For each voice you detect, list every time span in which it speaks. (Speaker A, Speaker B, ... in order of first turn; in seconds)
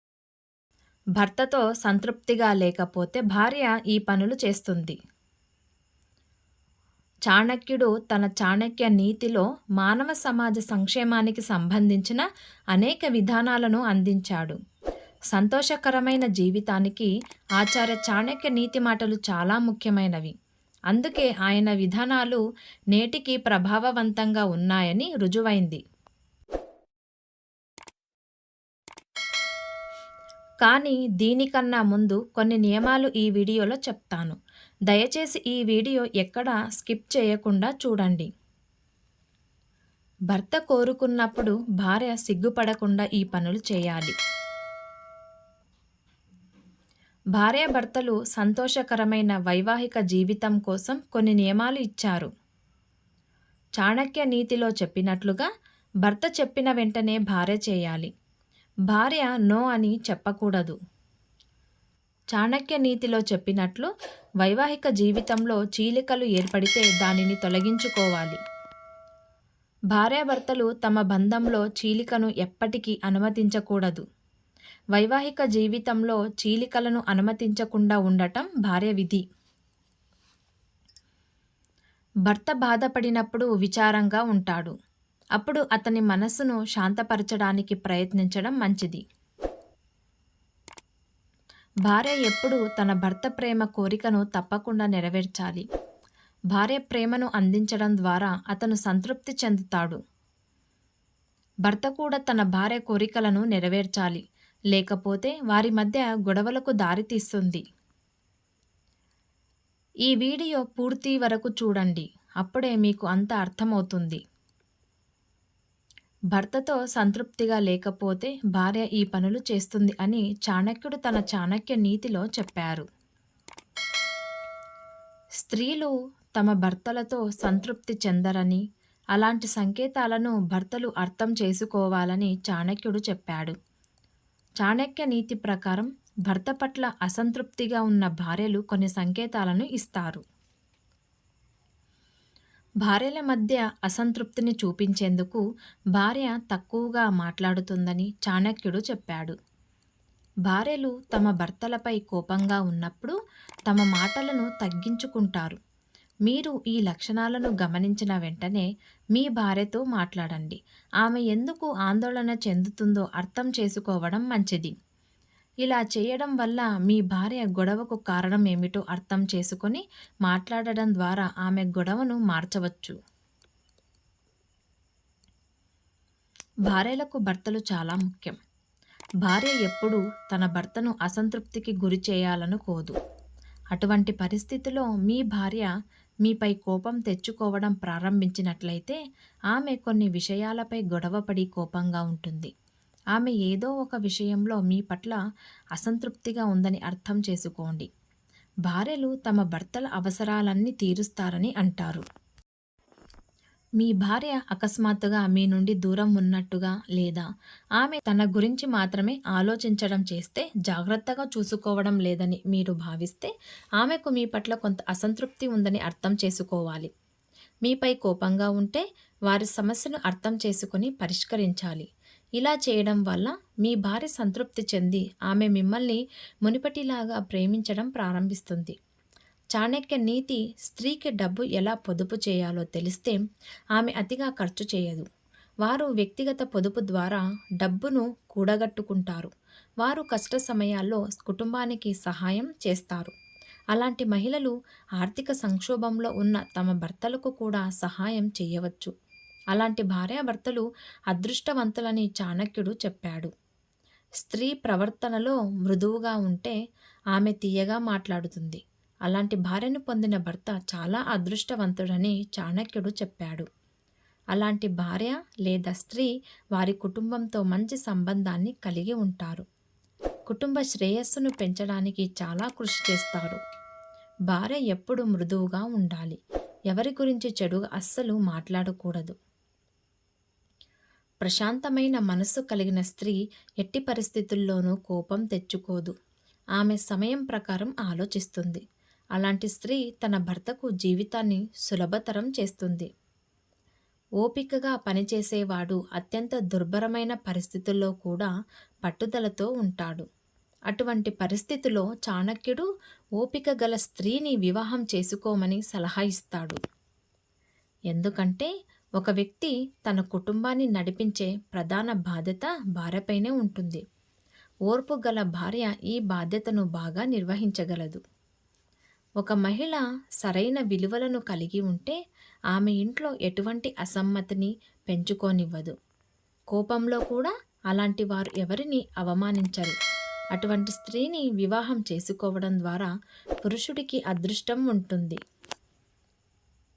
Speaker A: 1.2-5.0, 7.3-14.6, 15.3-20.4, 20.9-22.4, 22.9-25.8, 30.6-34.4, 34.9-38.3, 40.3-44.1, 47.4-52.3, 53.8-55.5, 56.1-58.1, 58.9-60.8, 62.4-63.9, 64.4-68.4, 69.9-74.0, 75.0-79.2, 82.3-84.7, 85.4-89.0, 91.9-95.7, 96.5-100.0, 101.7-104.2, 104.7-107.6, 110.1-114.2, 116.3-122.8, 125.4-128.6, 129.2-133.6, 134.6-140.2, 142.8-145.4, 146.0-149.3, 150.5-153.2, 153.7-155.6, 156.3-164.7, 165.6-173.0, 176.7-178.4, 179.2-182.9, 183.7-185.7, 186.2-189.0, 189.5-192.5, 193.2-195.2, 195.8-197.9, 198.7-202.0, 203.8-207.3, 207.8-216.9, 217.7-221.9, 222.4-228.8, 229.6-233.2, 233.8-235.1, 235.7-239.3, 239.8-243.1, 243.7-248.9, 249.5-253.3, 254.2-256.6, 257.1-263.4, 264.3-269.4, 270.3-273.4, 274.3-276.2, 276.7-279.1, 281.2-285.9, 286.6-288.6, 289.2-292.9, 294.2-298.3, 298.9-300.1, 300.7-302.7, 303.2-306.6, 307.9-313.8, 314.7-318.0, 319.2-322.0, 322.5-325.8, 326.5-329.8, 330.4-332.9, 333.4-335.2